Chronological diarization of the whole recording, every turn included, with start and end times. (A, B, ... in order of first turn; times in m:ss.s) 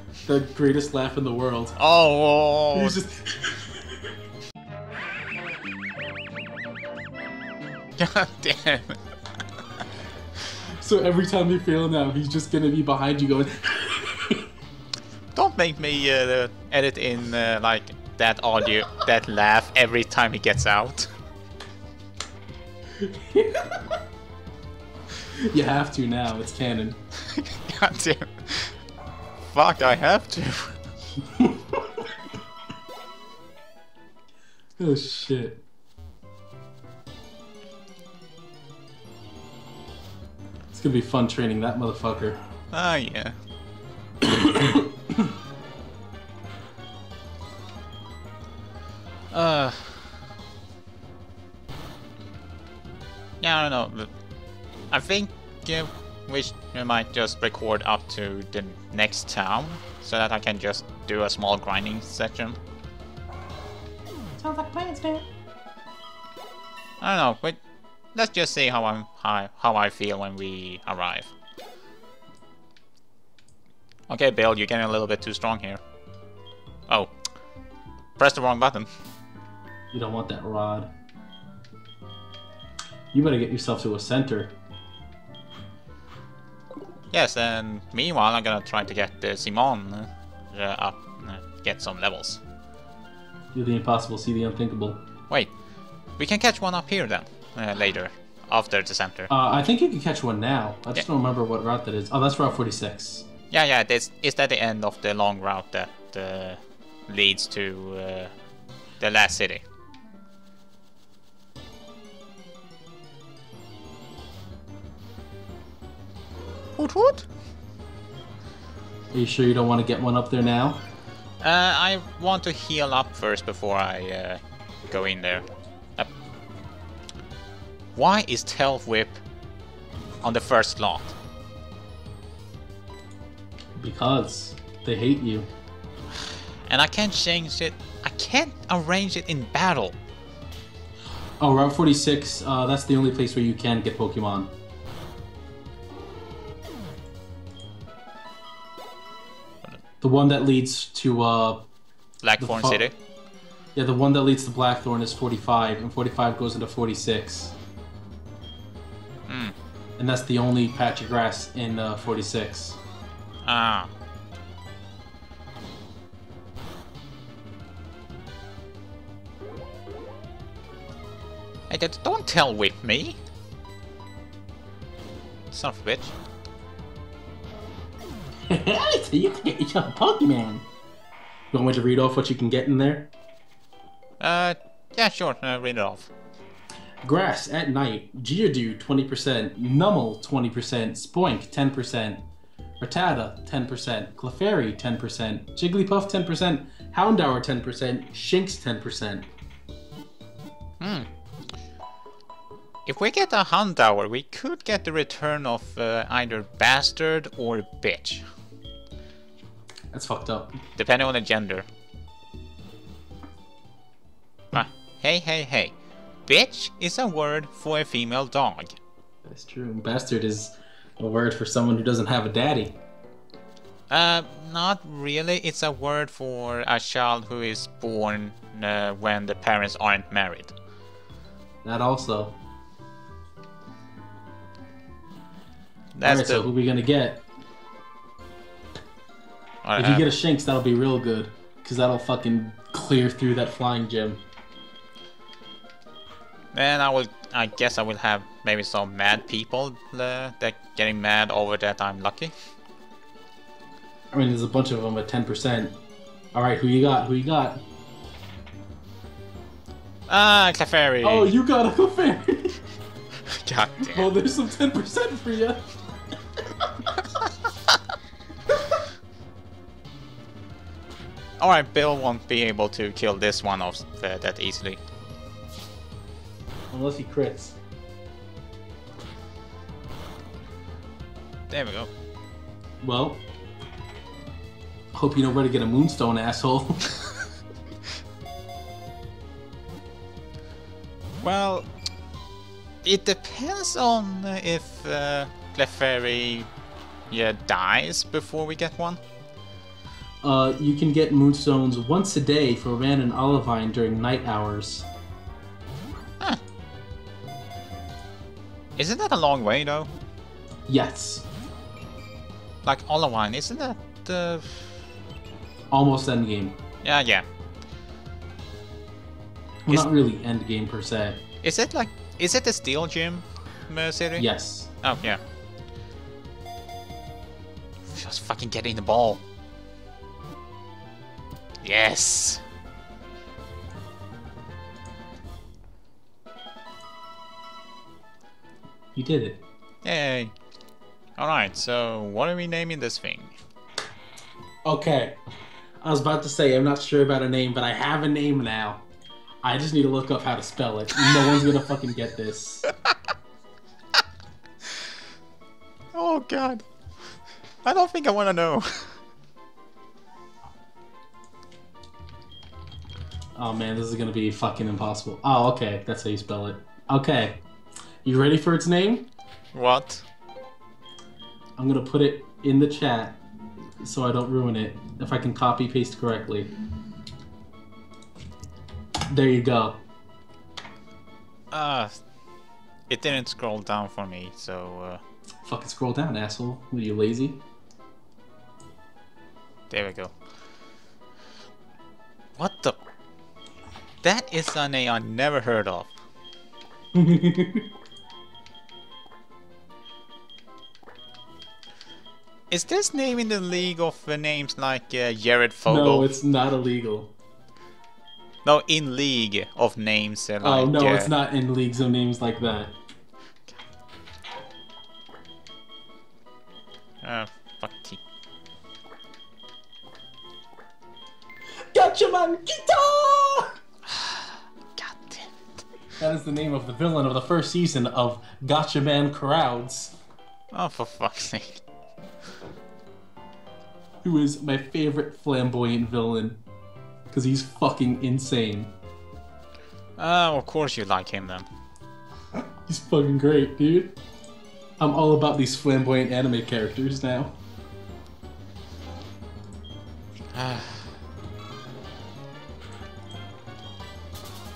0:00.2-0:01.8 A
0:01.8-0:03.0 B
0:02.7-0:03.6 A
0:08.0-0:09.0 B
0:10.8-0:14.4 A
0:15.3-0:21.1 B
0:23.0-0:24.0 A
0:25.4-0:27.0 A
0:27.1-0:28.8 B
0:29.4-0:30.7 B
0:31.2-0:32.1 A
0:34.8-0:35.6 A
0:40.7-0:42.4 A
0:42.7-0:43.4 B
0:44.2-0:45.3 A
0:49.3-0:50.2 B
0:53.4-0:54.1 B
0:54.9-1:02.6 B
1:04.4-1:05.2 A
1:07.0-1:07.6 B
1:08.1-1:11.3 B
1:14.1-1:15.8 B
1:18.2-1:18.9 B
1:19.9-1:20.9 A
1:23.1-1:24.6 A
1:27.1-1:32.4 B
1:33.5-1:35.0 A
1:36.2-1:39.3 B
1:39.3-1:43.3 A
1:43.5-1:48.3 B
1:49.0-1:49.6 B
1:56.8-1:57.3 B
1:59.1-2:00.8 A
2:01.4-2:05.4 B
2:07.9-2:09.2 B
2:10.2-2:11.1 B
2:13.8-2:15.5 A
2:16.7-2:20.0 B
2:21.4-2:24.5 A
2:30.0-2:31.7 A
2:32.2-2:32.9 B
2:32.4-2:32.9 A
2:33.7-2:37.6 A
2:39.3-2:39.5 B
2:40.0-2:42.8 A
2:43.4-2:43.9 B
2:51.7-2:53.2 B
2:55.5-2:56.1 B
2:58.5-3:00.6 A
3:01.5-3:03.1 A
3:04.2-3:06.1 B
3:07.0-3:12.2 A
3:12.8-3:19.3 A
3:20.8-3:21.1 B
3:22.8-3:28.2 B
3:29.9-3:30.6 A
3:30.8-3:31.7 B
3:34.5-3:35.7 B
3:36.3-3:38.8 B
3:39.2-3:42.8 A
3:43.9-3:50.5 B
3:51.6-3:52.4 A
3:55.9-3:56.4 B
3:56.0-3:57.2 A
3:59.6-4:00.1 B
3:59.8-4:04.2 A
4:06.5-4:12.3 B
4:14.1-4:15.8 A
4:16.3-4:17.6 A
4:20.1-4:21.3 B
4:21.0-4:22.6 A
4:23.2-4:24.1 B
4:23.8-4:25.7 A
4:27.0-4:27.8 B
4:31.4-4:34.8 B
4:36.7-4:37.5 A
4:41.5-4:41.9 B
4:42.8-4:43.2 A
4:44.9-4:47.0 A
4:51.2-4:51.7 B
4:52.8-4:56.5 B
4:57.1-4:59.0 B
5:00.2-5:04.9 A
5:08.8-5:09.9 B
5:10.7-5:11.3 A
5:12.6-5:14.7 B
5:15.7-5:16.6 A
5:16.8-5:17.2 B
5:19.7-5:21.2 A
5:21.4-5:24.2 B
5:24.2-5:24.7 A
5:24.8-5:25.2 B
5:27.8-5:29.2 B
5:31.6-5:32.4 B
5:38.9-5:39.4 A
5:39.8-5:40.3 B
5:41.2-5:43.3 B
5:44.6-5:45.2 A
5:45.8-5:48.8 A
5:49.4-5:52.7 A
5:51.0-5:51.4 B
5:55.9-5:56.6 B
5:57.6-5:59.0 B
6:03.3-6:07.4 A
6:08.0-6:09.1 A
6:09.5-6:10.0 B
6:11.6-6:13.2 A
6:13.8-6:16.5 A
6:19.1-6:19.8 A
6:21.5-6:21.9 B
6:22.9-6:25.0 B
6:25.4-6:27.4 A
6:29.7-6:30.1 B
6:32.4-6:32.8 B
6:34.0-6:35.9 B
6:36.9-6:37.7 A
6:42.5-6:46.1 B
6:45.6-6:47.1 A
6:48.4-6:51.1 B
6:50.4-6:52.8 A
6:57.0-6:58.0 B
7:01.7-7:03.5 A
7:03.9-7:05.4 B
7:06.0-7:10.0 A
7:10.5-7:11.6 B
7:14.0-7:16.4 A
7:17.1-7:18.7 A
7:20.0-7:21.5 B
7:22.7-7:23.9 A
7:24.8-7:27.4 A
7:30.3-7:30.9 B